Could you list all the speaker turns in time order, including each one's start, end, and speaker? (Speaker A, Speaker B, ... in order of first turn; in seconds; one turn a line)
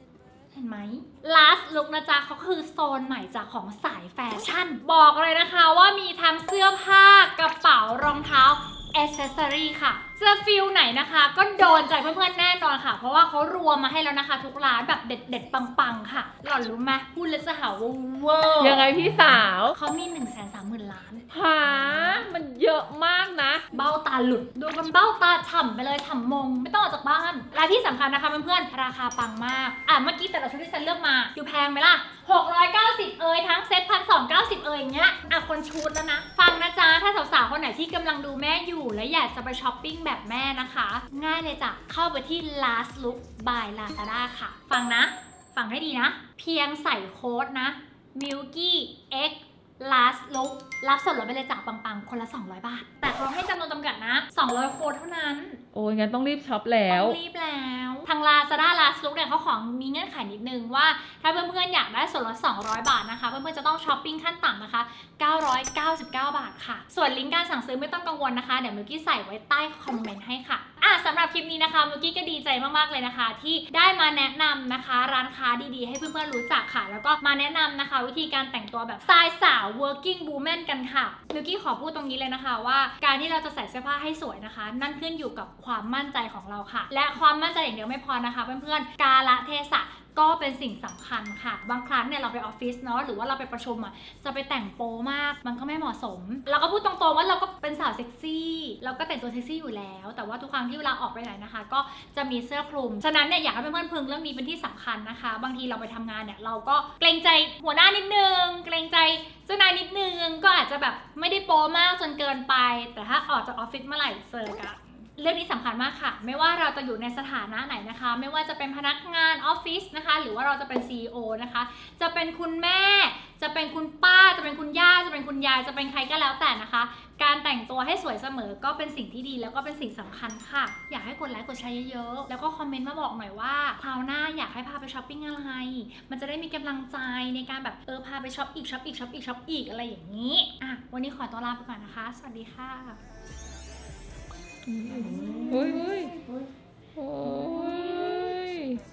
Speaker A: 0.5-22.2
Speaker B: 18.6-19.8
Speaker B: 21.3-23.6
Speaker A: 23.7-55.6
Speaker B: 55.7-57.2
Speaker A: 56.9-143.0
Speaker B: 144.7-146.2
Speaker A: 145.3-145.8
Speaker B: 147.0-148.8